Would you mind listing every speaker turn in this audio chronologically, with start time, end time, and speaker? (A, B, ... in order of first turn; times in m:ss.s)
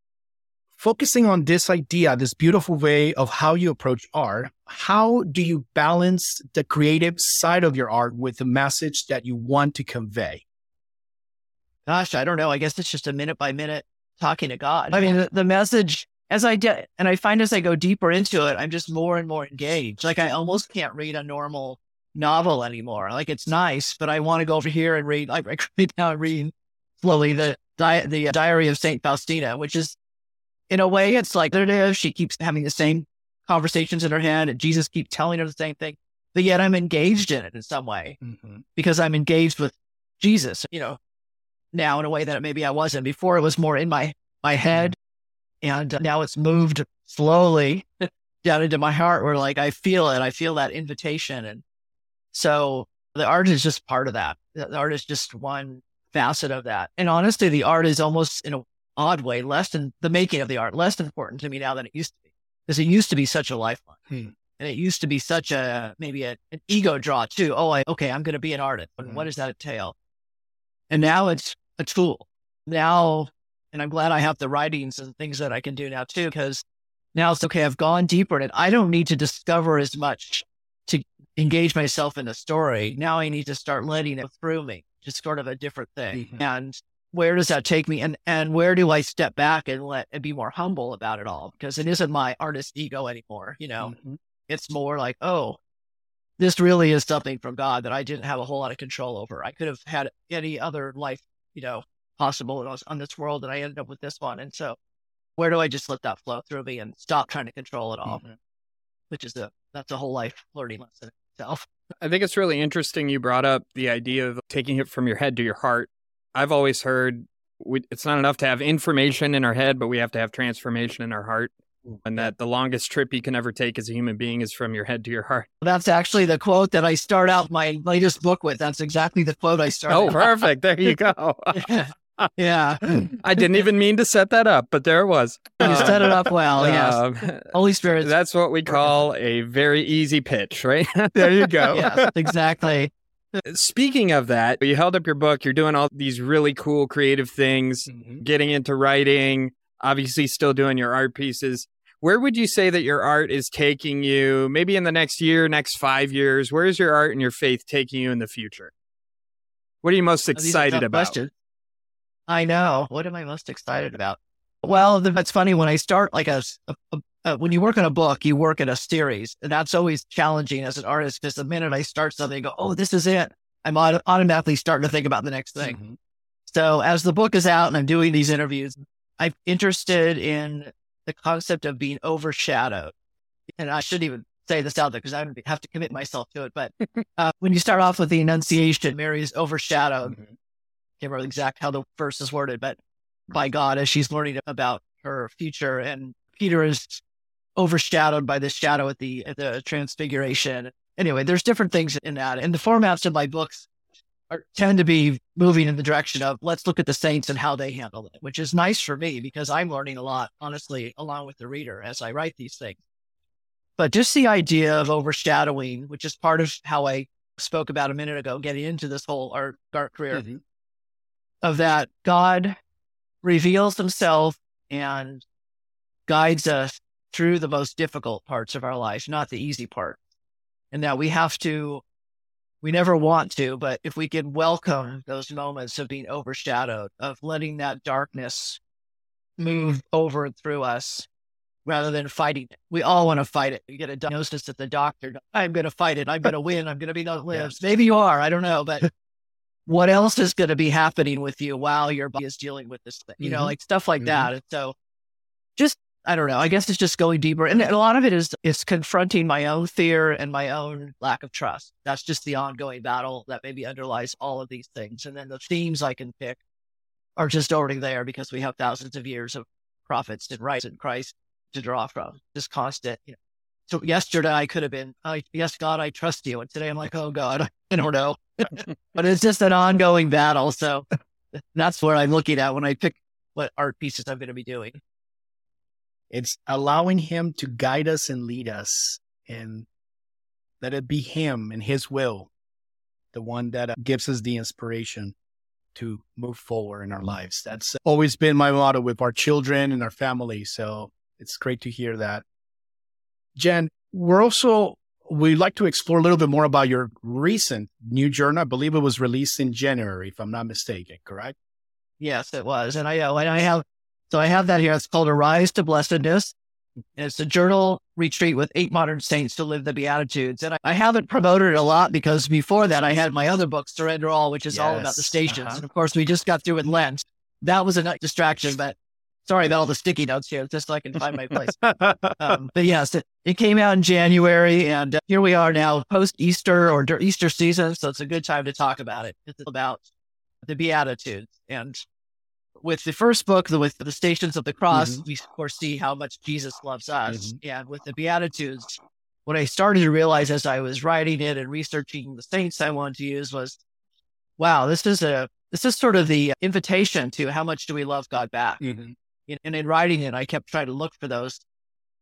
0:00.8-0:10.4 A
0:11.9-0:30.0 B
0:30.7-0:38.2 B
0:38.2-0:38.6 A
0:38.8-0:41.0 B
0:41.7-0:45.0 B
0:45.6-0:51.6 B
0:52.3-1:04.0 B
1:04.6-1:10.0 B
1:10.9-1:16.6 B
1:17.2-1:33.9 B
1:26.1-1:26.4 A
1:33.8-1:34.2 A
1:34.5-1:35.6 B
1:36.4-1:44.8 B
1:45.4-1:48.2 B
1:48.1-1:48.4 A
1:49.1-1:51.7 B
1:52.0-2:05.5 C
2:01.9-2:02.3 A
2:05.6-2:10.2 B
2:09.9-2:11.7 C
2:11.5-2:13.0 B
2:12.9-2:16.0 C
2:15.6-2:18.1 B
2:16.6-2:21.7 C
2:21.2-2:22.1 A
2:21.7-2:23.4 B
2:23.4-2:38.7 C
2:27.9-2:28.2 A
2:39.8-2:41.2 C
2:40.4-2:41.3 B
2:42.3-2:55.8 B
2:55.6-2:56.0 A
2:56.5-3:02.9 B
3:03.6-3:10.2 B
3:11.0-3:12.8 B
3:13.3-3:17.0 B
3:17.6-3:23.7 B
3:24.3-3:32.8 B
3:33.8-3:40.2 B
3:40.1-3:40.4 A
3:41.4-3:42.6 B
3:43.2-3:45.2 B
3:46.1-3:50.0 B
3:50.7-3:51.8 B
3:52.6-3:58.6 B
3:59.4-4:01.1 B
4:01.6-4:08.9 B
4:09.7-4:14.8 B
4:13.2-4:14.3 A
4:15.6-4:26.4 B
4:27.2-4:33.2 B
4:33.7-4:44.8 B
4:46.1-4:49.7 A
4:50.6-4:52.3 A
4:53.1-4:55.2 A
4:55.8-5:02.2 A
5:03.4-5:11.3 A
5:12.0-5:16.4 B
5:17.0-5:31.6 B
5:24.5-5:25.6 A
5:31.5-5:32.4 A
5:32.2-5:39.8 B
5:40.4-5:41.8 B
5:42.6-5:53.6 B
5:44.7-5:45.0 A
5:47.1-5:47.4 A
5:54.4-5:58.6 B
5:58.6-5:58.9 A
5:59.3-6:01.4 B